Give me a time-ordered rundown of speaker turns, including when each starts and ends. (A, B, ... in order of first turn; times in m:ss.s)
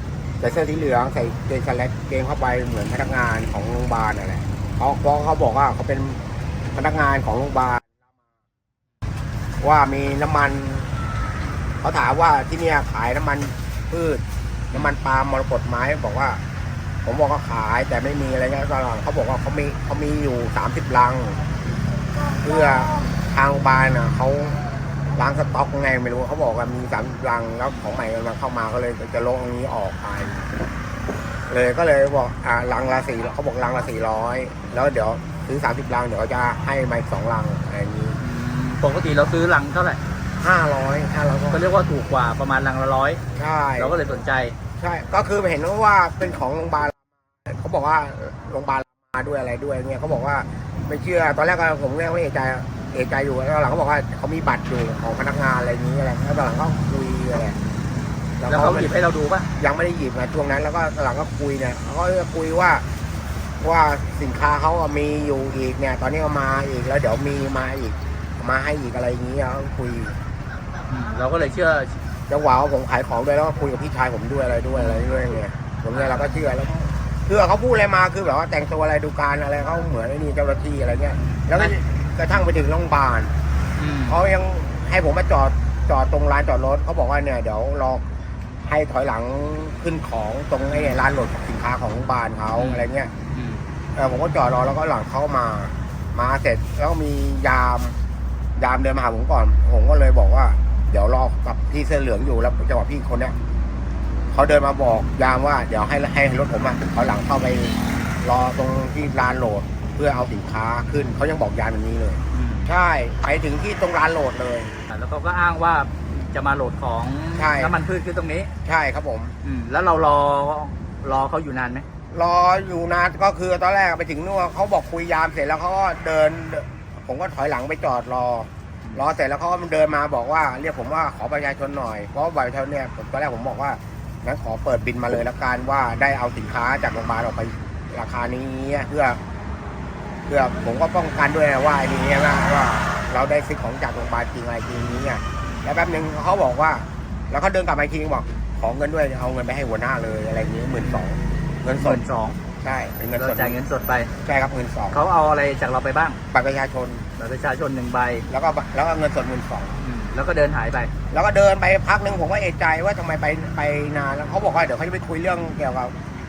0:00.4-0:06.2 A
0:06.7-0:08.0 A
0:09.6-0:10.9 A
0:11.8-0:16.4 A
0:17.0-0:21.4 A
0:22.4-0:24.6 A
0:25.2-0:30.5 A
0:31.5-0:38.2 A
0:38.2-0:40.0 B
0:40.4-0:41.6 A
0:41.5-0:43.2 B
0:43.4-0:44.0 A
0:43.8-0:44.6 B
0:44.8-0:57.6 A
0:58.4-0:59.0 A
0:58.5-0:59.5 B
0:59.6-1:02.8 A
1:03.6-1:10.2 A
1:10.9-1:12.0 B
1:12.3-1:23.3 A
1:14.7-1:15.1 B
1:15.9-1:16.3 B
1:21.2-1:21.7 B
1:23.8-1:24.2 B
1:24.1-1:28.0 A
1:28.6-1:33.1 A
1:30.7-1:31.0 B
1:32.6-1:33.6 B
1:34.0-1:38.0 A
1:38.6-1:43.3 A
1:44.3-1:54.7 A
1:52.3-1:52.7 B
1:54.9-1:58.5 B
1:57.4-1:57.8 A
1:58.6-1:59.3 A
1:59.4-2:01.9 B
2:02.1-2:19.2 A
2:20.3-2:32.0 A
2:30.8-2:31.0 B
2:31.8-2:32.4 B
2:32.6-2:33.6 A
2:33.2-2:34.1 B
2:34.2-2:35.0 A
2:34.9-2:36.2 B
2:36.3-2:37.1 A
2:37.2-2:38.3 B
2:38.3-2:39.8 A
2:39.8-2:40.9 B
2:41.1-2:45.9 A